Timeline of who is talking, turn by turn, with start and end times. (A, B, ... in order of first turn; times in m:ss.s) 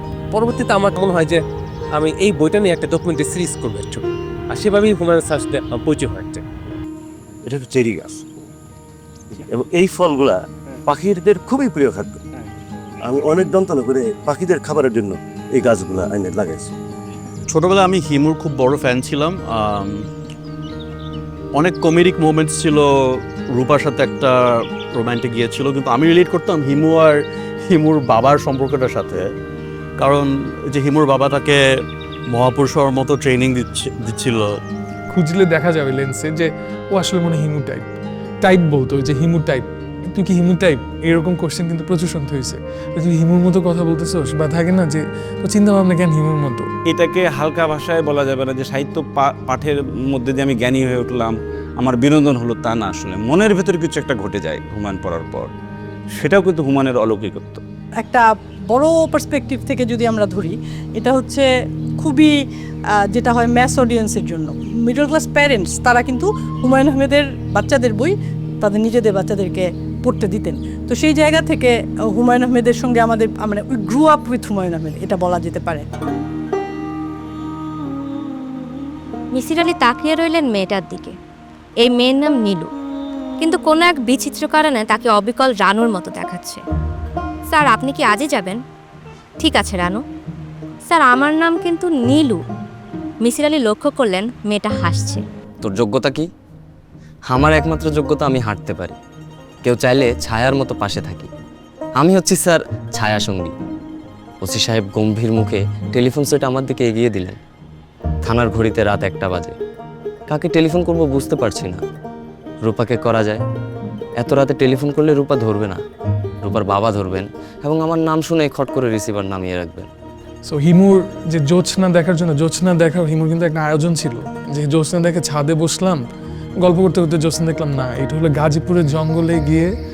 0:00.3-0:01.4 A
0:01.9-0:06.4 A
0:07.4-0:08.3 B
0:09.4-0:12.2 B
0:13.0-0:16.7 B
0:17.5-0:20.0 C
0:21.6-0:22.9 C
0:23.5-0:29.2 C
0:30.0-0:31.6 C
0:32.3-0:34.6 C
0:35.1-0:37.8 D
0:38.4-0:46.7 D
0:46.9-0:55.5 E
0:56.2-0:57.6 E
0:58.0-1:01.5 F
1:02.0-1:02.3 F
1:03.1-1:15.8 F
1:19.3-1:21.1 G
1:21.8-1:22.7 G
1:23.4-1:26.6 G
1:27.5-1:28.6 G
1:29.4-1:30.0 G
1:30.9-1:32.4 G
1:33.2-1:35.2 G
1:35.6-1:36.3 H
1:37.3-1:39.0 H
1:39.6-1:41.3 H
1:42.0-1:43.5 H
1:44.4-1:47.4 H
1:48.2-1:49.5 H
1:50.3-1:51.8 H
1:52.6-1:53.4 H
1:54.2-1:55.8 H
1:56.4-1:59.9 H
2:00.5-2:06.0 D
2:06.6-2:09.7 D